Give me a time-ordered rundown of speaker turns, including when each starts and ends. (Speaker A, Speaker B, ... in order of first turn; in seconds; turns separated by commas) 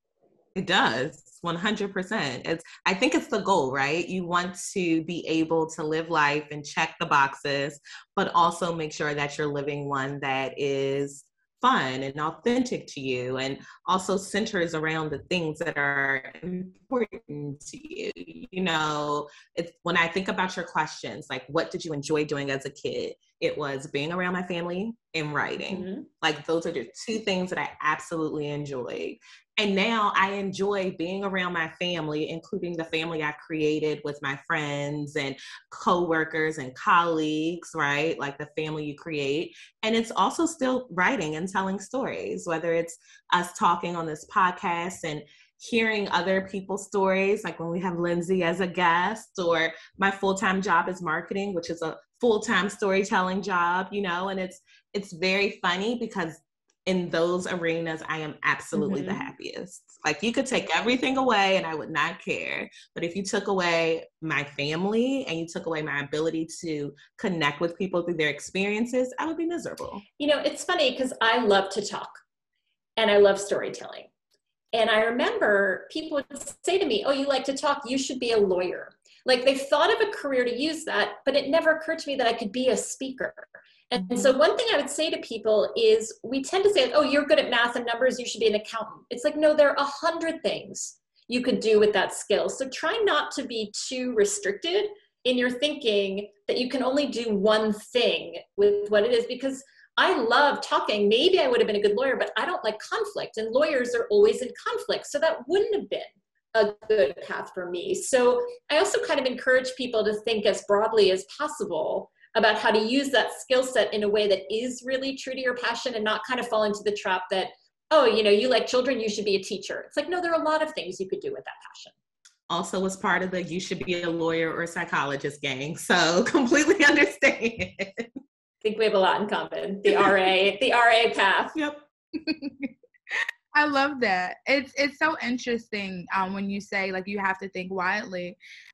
Speaker A: 0.5-70.0, Speaker B: 25.7-26.1, Speaker B: 58.7-59.2, Speaker B: 70.2-72.2, Speaker B: 73.0-74.1, Speaker B: 74.7-121.9, Speaker A: 122.5-128.1, Speaker B: 128.6-131.5, Speaker A: 131.6-131.8, Speaker C: 132.2-132.7, Speaker C: 133.5-138.4